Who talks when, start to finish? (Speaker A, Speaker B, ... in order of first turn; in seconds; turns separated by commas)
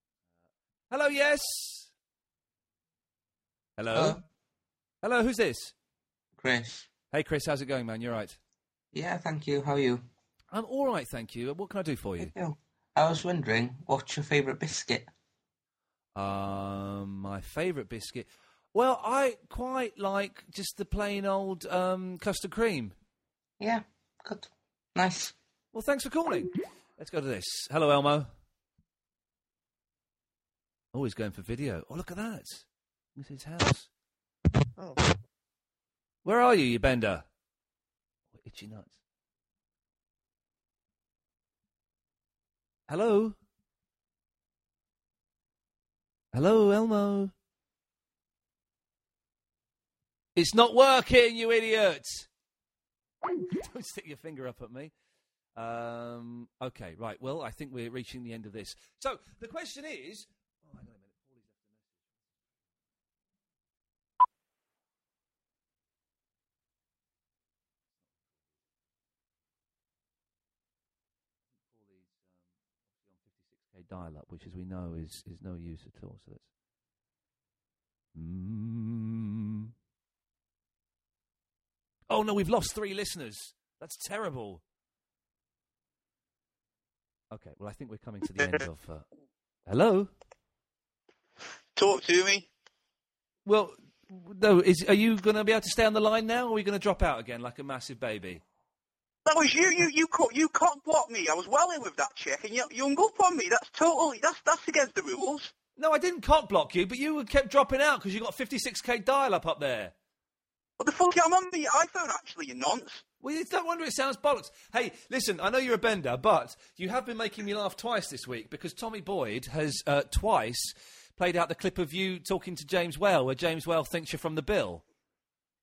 Speaker A: 0.9-1.9, Speaker A: 3.8-4.2, Speaker B: 3.9-4.2, Speaker A: 5.0-5.7, Speaker B: 6.4-6.9, Speaker A: 7.1-8.4, Speaker B: 8.9-10.0, Speaker A: 10.5-12.3, Speaker B: 12.2-15.1, Speaker A: 16.1-22.9, Speaker B: 23.6-25.3, Speaker A: 25.7-28.3, Speaker A: 30.9-33.9, Speaker A: 36.2-37.3, Speaker A: 38.3-39.0, Speaker A: 42.9-43.4, Speaker A: 46.3-47.3, Speaker A: 50.4-52.3, Speaker A: 53.4-54.9, Speaker A: 55.6-62.0, Speaker A: 71.5-72.4, Speaker A: 72.9-76.5, Speaker A: 78.2-79.7, Speaker A: 82.1-84.6, Speaker A: 87.3-89.1, Speaker A: 89.7-90.1, Speaker C: 91.8-92.5, Speaker A: 93.5-98.4, Speaker C: 99.3-105.5, Speaker A: 105.8-109.9, Speaker C: 110.8-113.0, Speaker A: 113.2-124.8